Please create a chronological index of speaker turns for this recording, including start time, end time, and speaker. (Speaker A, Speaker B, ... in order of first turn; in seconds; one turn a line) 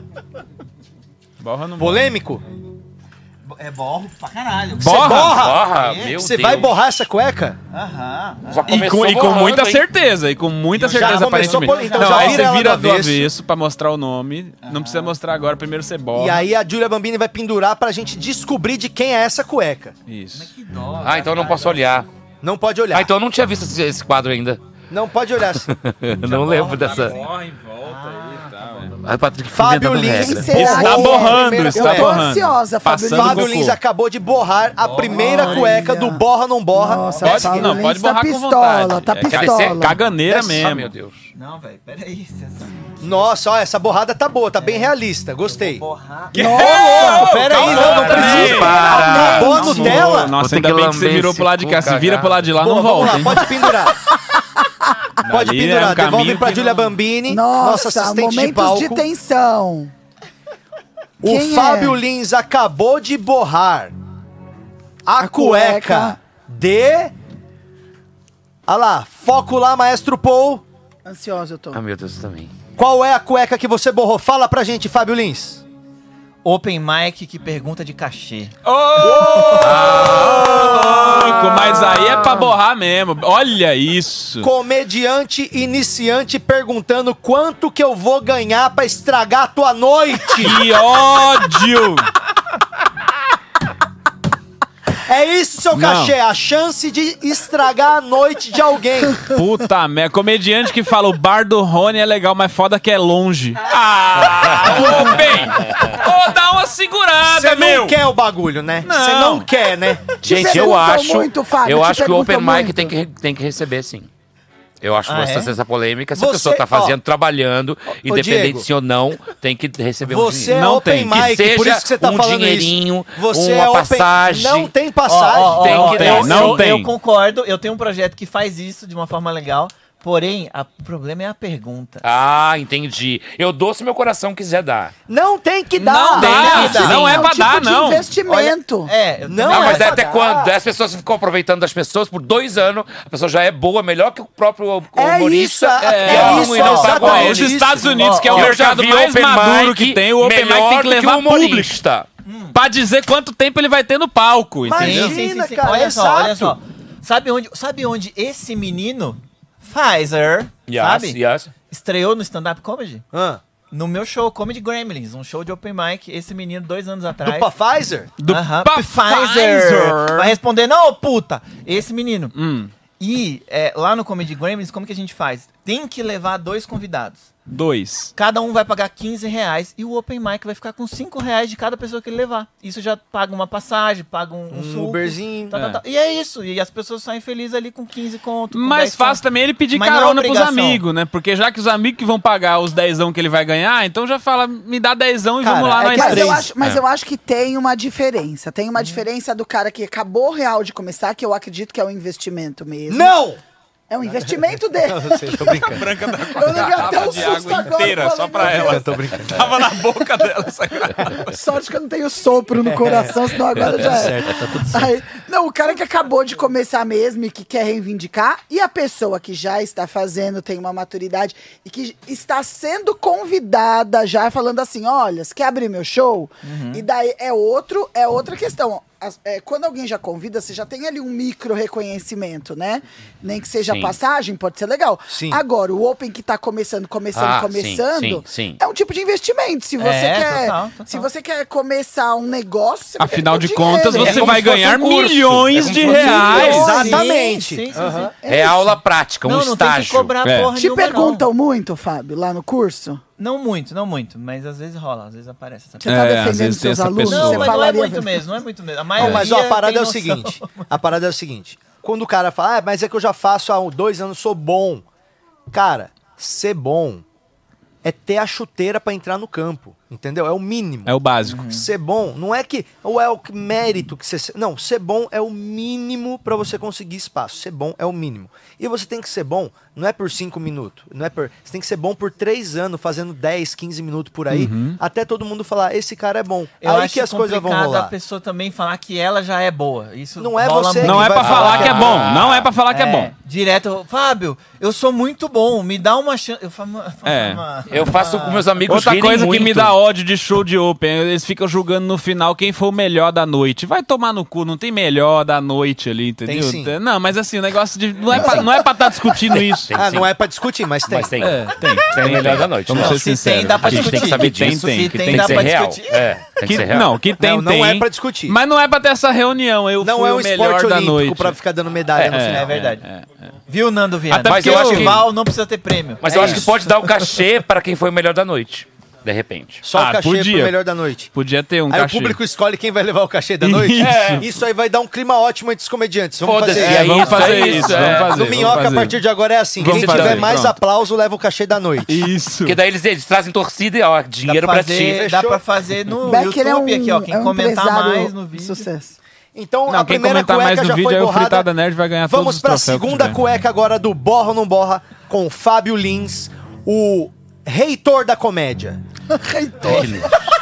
Speaker A: 1.4-2.0
Speaker B: 1.8-2.4
Speaker C: 3.5-6.6
Speaker A: 4.8-5.5
Speaker B: 4.9-7.6
Speaker D: 5.3-6.7
Speaker C: 7.7-8.8
Speaker D: 8.5-9.8
Speaker A: 8.7-16.4
Speaker C: 10.7-12.6
Speaker B: 10.8-13.3
Speaker C: 14.6-15.2
Speaker B: 16.1-19.9
Speaker A: 20.1-20.5
Speaker C: 20.3-22.0
Speaker D: 21.0-22.1
Speaker B: 22.4-23.1
Speaker D: 22.9-24.6
Speaker B: 24.9-25.7
Speaker D: 25.6-27.2
Speaker C: 26.3-29.0
Speaker A: 26.4-28.9
Speaker D: 29.0-30.6
Speaker B: 29.5-32.3
Speaker E: 30.0-33.6
Speaker A: 30.5-33.8
Speaker B: 33.1-37.7
Speaker C: 34.8-35.9
Speaker E: 35.1-36.2
Speaker E: 36.7-40.0
Speaker C: 37.0-37.6
Speaker A: 37.2-40.9
Speaker D: 39.3-41.3
Speaker B: 40.3-40.6
Speaker C: 41.3-43.3
Speaker B: 43.0-45.8
Speaker C: 44.6-44.9
Speaker C: 45.4-46.5
Speaker A: 46.3-53.5
Speaker E: 46.4-47.4
Speaker B: 46.7-50.4
Speaker D: 47.5-52.4
Speaker C: 47.7-48.4
Speaker E: 48.7-50.0
Speaker C: 49.6-50.1
Speaker B: 52.6-53.9
Speaker B: 55.2-59.1
Speaker A: 55.3-56.8
Speaker E: 57.3-59.9
Speaker B: 61.2-63.9
Speaker E: 61.2-62.0
Speaker B: 65.1-67.1
Speaker E: 65.2-66.2
Speaker B: 68.7-70.6
Speaker E: 71.0-71.8
Speaker D: 71.7-72.5
Speaker B: 72.8-75.6
Speaker C: 76.4-79.5
Speaker A: 78.7-84.5
Speaker B: 79.0-80.7
Speaker D: 79.6-82.5
Speaker B: 84.4-90.6
Speaker A: 90.3-92.1
Speaker B: 95.0-99.2
Speaker A: 95.7-96.2
Speaker A: 99.2-108.0
Speaker D: 105.5-105.9
Speaker B: 107.2-110.7
Speaker A: 108.8-109.5
Speaker D: 110.2-114.1
Speaker E: 110.2-112.9
Speaker D: 114.8-124.7
Speaker C: 115.0-115.5
Speaker B: 116.2-117.0
Speaker B: 118.0-118.7
Speaker B: 120.0-126.2
Speaker A: 120.5-121.2
Speaker C: 125.1-132.1
Speaker D: 125.3-126.7
Speaker A: 125.7-126.9
Speaker D: 132.0-134.9
Speaker B: 135.1-136.9
Speaker A: 135.8-138.1
Speaker C: 136.2-137.2
Speaker E: 136.4-138.9
Speaker C: 138.3-140.1
Speaker B: 139.2-140.5
Speaker D: 139.5-147.7
Speaker B: 144.9-148.2
Speaker A: 145.8-151.8
Speaker C: 146.1-148.6
Speaker D: 148.3-152.1
Speaker C: 152.2-152.6
Speaker A: 152.5-155.2
Speaker B: 154.7-156.6
Speaker C: 154.7-163.1
Speaker D: 160.7-161.5
Speaker B: 163.1-163.4
Speaker C: 163.7-167.5
Speaker B: 167.2-168.1
Speaker A: 168.2-170.4
Speaker C: 168.3-172.3
Speaker A: 172.3-172.7
Speaker C: 173.0-177.3
Speaker A: 177.5-178.1
Speaker C: 178.2-190.8
Speaker B: 184.5-185.6
Speaker A: 185.5-185.8
Speaker A: 188.5-196.5
Speaker B: 195.4-196.5
Speaker E: 195.8-203.2
Speaker B: 202.9-203.4
Speaker E: 203.9-208.8
Speaker B: 204.0-205.9
Speaker A: 205.7-211.4
Speaker B: 208.4-209.8
Speaker E: 211.1-244.3
Speaker B: 212.7-214.9
Speaker C: 226.4-226.8
Speaker D: 233.6-234.0
Speaker B: 235.1-235.4
Speaker D: 237.1-238.6
Speaker C: 239.8-241.1
Speaker A: 243.0-246.9
Speaker D: 244.0-246.6
Speaker B: 245.8-248.1
Speaker C: 246.1-248.1
Speaker E: 246.4-248.8
Speaker D: 248.2-250.1
Speaker C: 249.2-251.3
Speaker A: 250.2-250.5
Speaker E: 250.6-253.0
Speaker C: 253.2-255.9
Speaker E: 255.8-258.2
Speaker A: 255.8-257.5
Speaker C: 257.1-260.8
Speaker B: 259.0-264.8
Speaker A: 259.0-259.2
Speaker B: 265.5-267.0
Speaker B: 267.8-287.9
Speaker A: 270.9-271.4
Speaker C: 271.2-271.7
Speaker A: 284.3-284.8
Speaker C: 286.6-291.3
Speaker B: 290.2-292.1
Speaker A: 290.8-293.1
Speaker D: 291.2-292.5
Speaker C: 292.7-298.5
Speaker A: 297.1-297.4
Speaker D: 297.7-299.8
Speaker A: 298.7-309.7
Speaker B: 306.2-306.7
Speaker D: 308.1-308.6
Speaker D: 309.4-310.1
Speaker B: 309.7-311.3
Speaker D: 310.9-317.0
Speaker A: 311.2-315.5
Speaker C: 312.7-316.1
Speaker A: 316.4-321.4
Speaker B: 317.2-318.4
Speaker B: 319.8-322.6
Speaker C: 322.0-322.9
Speaker A: 322.0-323.1
Speaker C: 323.5-326.5
Speaker A: 324.1-325.0
Speaker D: 324.2-325.1
Speaker D: 326.0-329.6
Speaker B: 329.6-331.1
Speaker A: 329.7-330.6
Speaker A: 331.1-332.2
Speaker B: 331.7-337.0
Speaker A: 333.4-334.3
Speaker D: 333.8-334.3
Speaker D: 336.2-338.6
Speaker A: 336.5-339.0
Speaker C: 336.9-338.0
Speaker B: 337.9-342.1
Speaker A: 339.6-340.6
Speaker D: 339.6-340.4
Speaker A: 341.9-342.6
Speaker D: 342.4-345.1
Speaker C: 344.2-348.7
Speaker B: 344.9-345.4
Speaker E: 346.0-349.0
Speaker B: 349.3-351.5
Speaker A: 349.7-353.2
Speaker B: 352.1-358.8
Speaker E: 359.1-360.2
Speaker D: 359.6-360.2